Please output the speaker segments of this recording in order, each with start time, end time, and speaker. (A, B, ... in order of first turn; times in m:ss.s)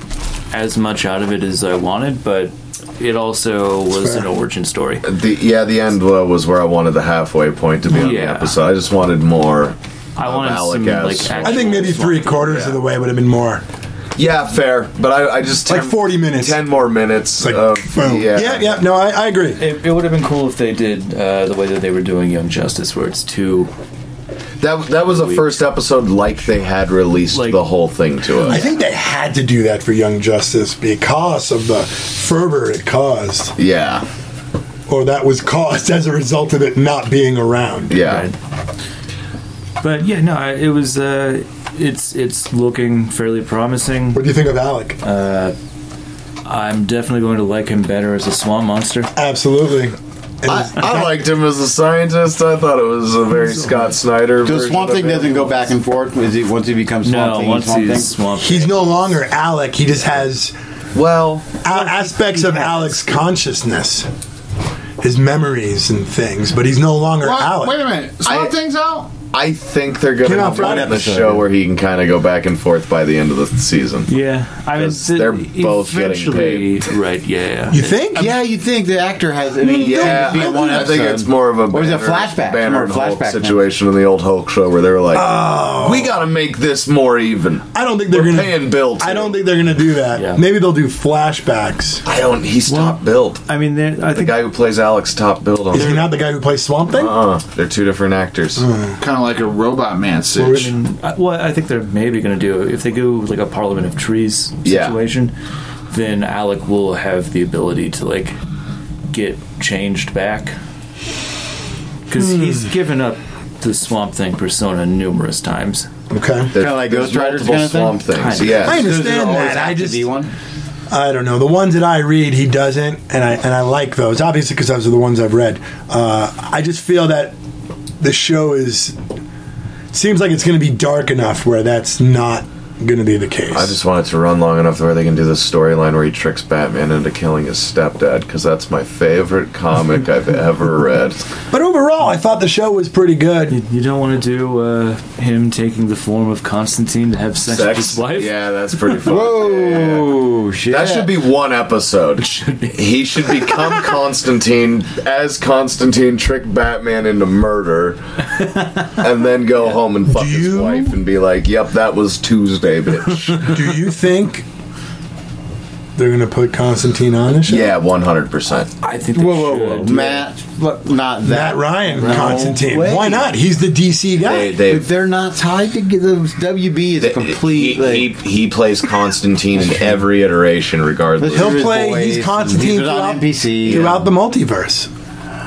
0:00.5-0:05.0 A
0:04.0-0:04.3 B
0:05.0-0:12.0 C
0:07.9-0:08.6 A
0:10.2-0:12.7 A
0:11.4-0:13.6 B
0:14.2-0:18.8 C
0:15.7-0:16.6 B
0:17.4-0:19.6 B
0:19.6-0:23.7 A
0:24.6-0:28.6 C
0:25.1-0:25.4 A
0:27.3-0:27.6 A
0:28.4-0:33.6 B
0:33.6-0:34.1 C
0:34.9-0:38.0 B
0:37.9-0:38.3 C
0:38.0-0:38.4 A
0:39.8-0:44.2 A
0:44.1-0:45.0 B
0:45.0-0:45.6 A
0:46.4-0:49.1 A
0:49.2-0:51.2 B
0:50.5-0:55.7 C
0:54.4-0:58.1 D
0:57.0-0:58.9 A
0:58.4-1:00.6 B
1:00.9-1:01.6 C
1:01.6-1:04.1 B
1:01.7-1:03.0 A
1:05.0-1:07.8 B
1:07.2-1:09.1 E
1:08.2-1:08.5 C
1:09.3-1:14.1 C
1:10.2-1:11.2 B
1:10.3-1:11.5 D
1:14.1-1:18.2 A
1:14.7-1:16.9 C
1:17.7-1:18.4 B
1:18.2-1:23.6 D
1:19.6-1:20.9 B
1:19.7-1:29.4 C
1:25.1-1:26.2 B
1:27.7-1:32.0 B
1:30.2-1:30.4 A
1:32.0-1:33.4 C
1:32.7-1:34.4 A
1:34.1-1:36.0 C
1:35.7-1:37.2 B
1:36.9-1:38.7 C
1:38.6-1:39.0 B
1:39.0-1:40.7 E
1:40.4-1:40.7 B
1:40.5-1:45.3 A
1:44.6-1:45.0 C
1:45.9-1:48.4 A
1:49.1-1:50.6 A
1:52.1-1:55.9 A
1:56.1-1:56.5 B
1:56.5-1:58.9 C
1:56.6-2:00.3 D
1:58.1-1:58.6 A
1:58.6-2:00.1 B
2:00.9-2:07.4 B
2:08.0-2:09.0 B
2:09.9-2:13.8 B
2:13.5-2:21.2 C
2:21.5-2:23.6 B
2:23.5-2:29.0 A
2:27.5-2:38.0 C
2:29.0-2:31.1 D
2:32.2-2:32.8 A
2:33.5-2:33.8 A
2:38.9-2:43.6 C
2:40.1-2:41.0 B
2:43.4-2:44.5 B
2:46.0-2:47.7 B
2:47.5-2:48.7 C
2:48.8-2:50.2 A
2:49.1-2:53.3 D
2:51.2-2:54.6 B
2:54.2-2:54.9 C
2:54.7-2:58.1 D
2:57.0-3:01.7 C
2:59.6-3:00.0 D
3:01.2-3:04.0 D
3:01.2-3:04.9 B